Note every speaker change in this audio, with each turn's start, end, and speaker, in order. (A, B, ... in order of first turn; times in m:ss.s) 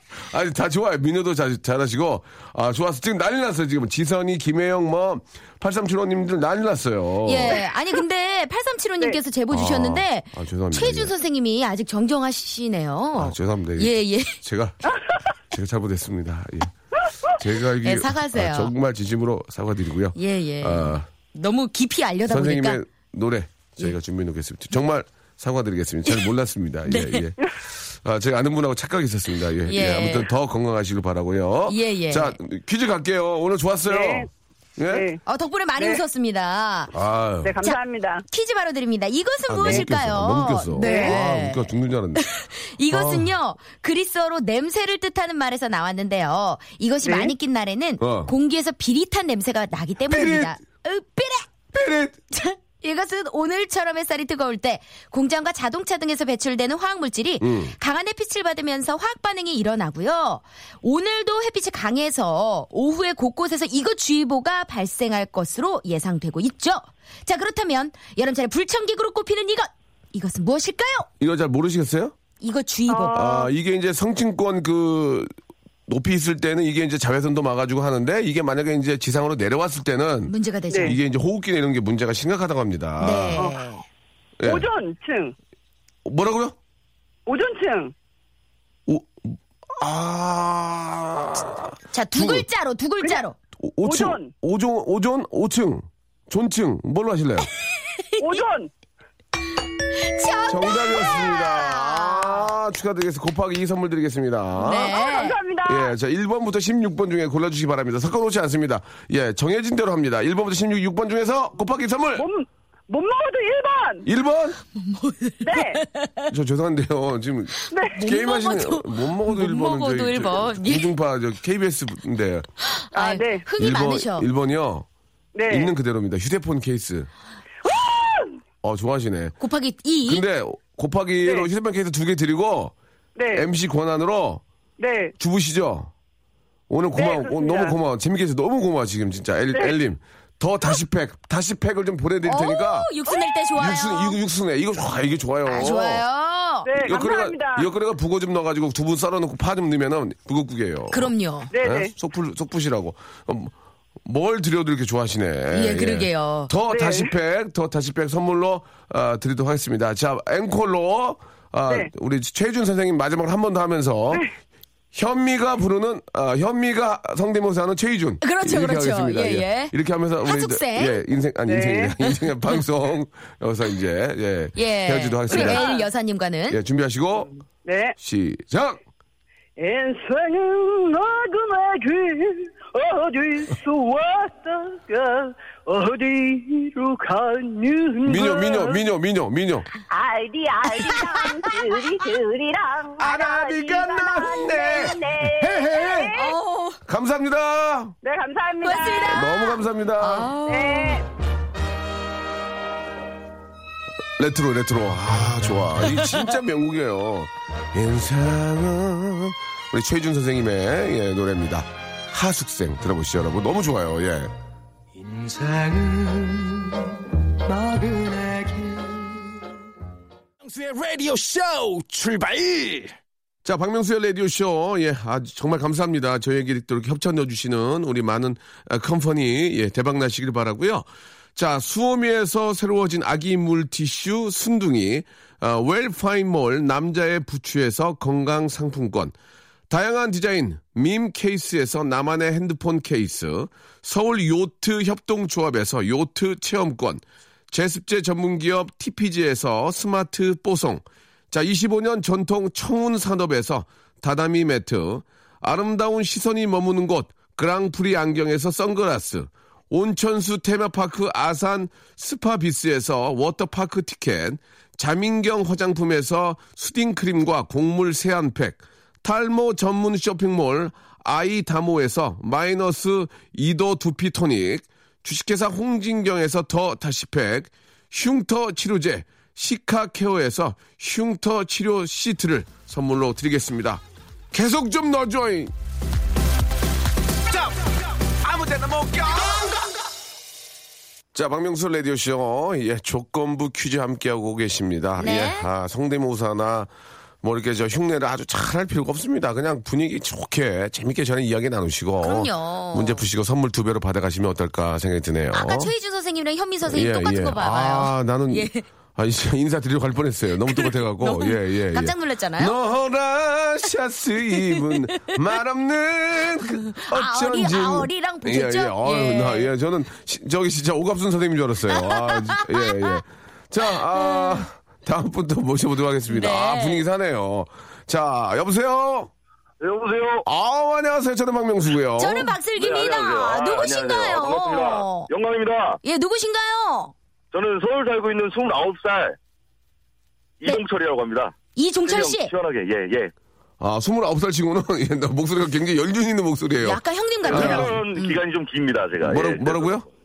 0:00.3-0:07.6 A
0:07.2-0:14.4 B
0:09.5-0:11.1 A
0:13.2-0:14.8 A
0:15.5-0:16.7 A
0:17.3-0:21.1 A
0:17.8-0:18.7 B
0:20.2-0:22.8 B
0:22.3-0:35.1 A
0:26.9-0:27.3 B
0:29.7-0:30.3 B
0:31.7-0:32.4 B
0:33.9-0:34.3 C
0:34.9-0:35.2 C
0:35.2-0:36.9 B
0:36.9-0:37.6 A
0:37.4-0:38.2 C
0:37.6-0:51.5 B
0:39.5-0:42.2 A
0:40.8-0:41.2 C
0:42.9-0:43.3 A
0:47.0-0:47.3 C
0:48.0-0:48.3 A
0:50.1-0:50.6 A
0:51.7-0:52.2 A
0:52.3-1:11.1 B
0:57.4-0:57.7 A
1:11.2-1:12.1 A
1:12.4-1:13.5 B
1:12.9-1:13.5 C
1:13.1-1:15.3 A
1:15.9-1:23.5 A
1:20.3-1:21.0 B
1:23.0-1:23.8 B
1:24.4-1:24.7 A
1:24.4-1:25.4 C
1:26.0-1:26.6 A
1:27.3-1:27.9 C
1:28.9-1:32.5 A
1:31.9-1:33.4 B
1:33.6-1:37.5 A
1:33.8-1:34.3 C
1:38.0-1:38.4 B
1:38.2-1:38.7 C
1:40.0-1:42.5 B
1:40.5-1:45.0 A
1:44.6-1:45.4 B
1:44.7-1:45.9 C
1:45.6-1:52.3 A
1:52.2-1:54.1 C
1:54.0-1:54.6 A
1:54.8-1:56.3 B
1:55.4-1:55.8 C
1:56.3-2:02.5 A
1:57.6-2:00.9 B
1:57.7-1:58.0 C
2:02.8-2:04.3 B
2:02.9-2:03.4 C
2:03.6-2:04.9 A
2:05.4-2:05.7 C
2:05.5-2:07.1 A
2:07.6-2:08.4 C
2:08.6-2:09.4 A
2:09.4-2:10.2 B
2:10.0-2:12.7 A
2:13.2-2:13.5 C
2:13.3-2:14.4 A
2:14.8-2:15.1 C
2:15.2-2:15.9 A
2:16.7-2:22.9 A
2:17.0-2:17.8 C
2:22.2-2:24.2 B
2:23.6-2:26.0 A
2:25.5-2:26.7 B
2:26.6-2:27.7 C
2:26.8-2:33.5 A
2:30.9-2:31.5 B
2:31.5-2:31.9 C
2:34.0-2:44.3 A
2:35.5-2:36.5 B
2:36.7-2:37.1 C
2:44.9-2:55.7 A
2:48.2-2:51.0 B
2:51.5-2:52.0 C
2:54.6-2:56.6 B
2:55.3-2:55.9 C
2:56.5-2:57.3 A
2:57.6-2:58.0 C
2:58.0-2:58.8 A
2:59.6-3:08.8 C
3:08.0-3:09.7 A
3:09.9-3:16.3 C
3:10.8-3:11.5 B
3:13.0-3:16.1 A
3:16.1-3:16.8 B
3:16.9-3:18.0 A
3:18.0-3:19.2 C
3:18.6-3:21.0 B
3:19.0-3:20.3 A
3:20.5-3:21.1 C
3:24.2-3:34.3 A
3:25.8-3:26.3 B
3:35.0-3:39.4 D
3:40.4-3:43.0 D
3:43.4-3:59.1 A
3:59.7-4:45.5 A
4:48.2-4:49.6 A
4:51.1-4:56.7 A
4:55.0-4:55.5 B
4:57.2-5:05.7 A
5:02.0-5:03.0 B
5:05.3-5:08.6 B
5:06.7-5:29.1 A
5:10.5-5:12.6 B
5:14.6-5:15.1 B
5:16.7-5:19.5 B
5:21.7-5:23.0 B
5:24.0-5:24.4 B
5:26.1-5:26.8 B
5:29.6-5:30.2 E
5:30.2-5:32.4 A
5:32.0-5:35.1 B
5:32.6-5:35.8 E
5:35.8-5:36.9 B
5:37.3-5:39.2 E
5:40.4-5:43.1 E
5:41.6-5:42.3 B
5:43.6-5:47.8 A
5:46.6-5:48.2 B
5:47.2-5:49.8 E
5:49.0-5:49.9 A